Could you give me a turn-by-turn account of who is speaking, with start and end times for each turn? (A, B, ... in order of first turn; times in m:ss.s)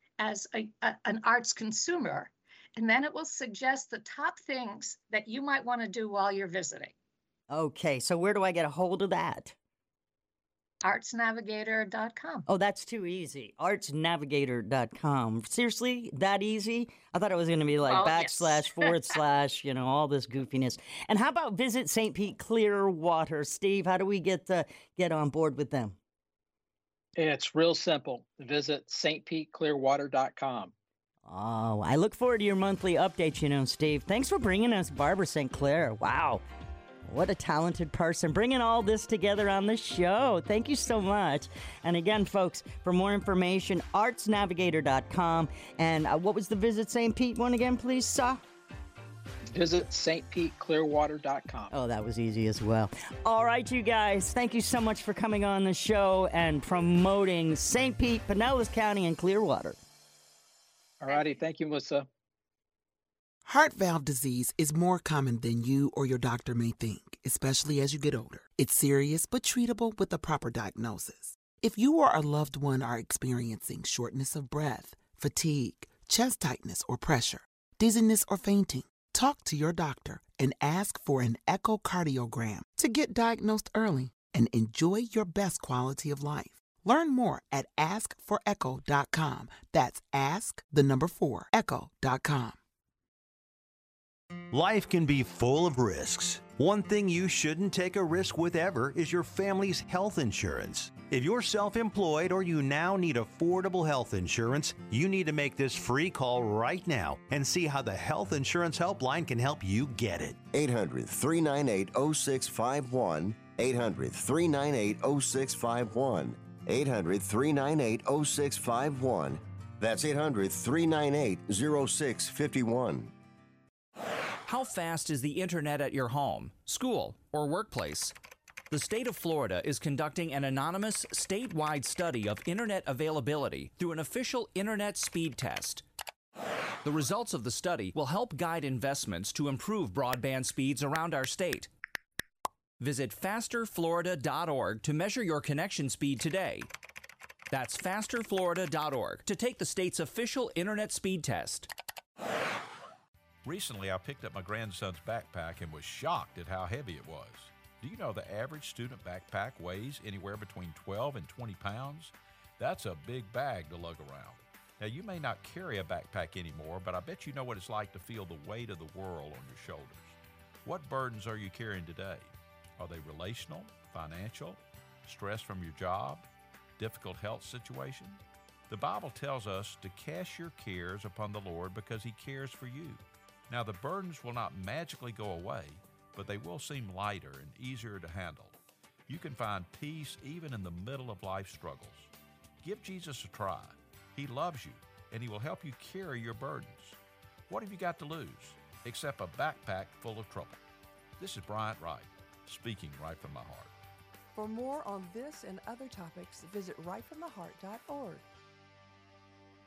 0:00.2-0:06.9 A
0:07.5-0:09.6 B
0:10.8-0:12.4 A
0:12.5-0:26.0 B
0:17.9-0:18.9 A
0:27.2-0:30.7 C
0:31.3-0:36.4 B
0:37.0-0:48.4 B
0:49.5-0:51.7 C
0:51.7-0:59.8 B
1:01.0-1:02.1 C
1:03.4-1:32.6 D
1:34.5-1:50.4 E
1:50.5-2:03.1 F
2:04.5-2:08.2 G
2:08.7-2:15.8 G
2:16.8-2:21.7 G
2:22.8-2:26.7 G
2:27.5-2:31.7 G
2:33.4-3:12.1 H
3:12.6-3:20.6 H
3:21.2-3:23.7 H
3:24.4-3:28.2 I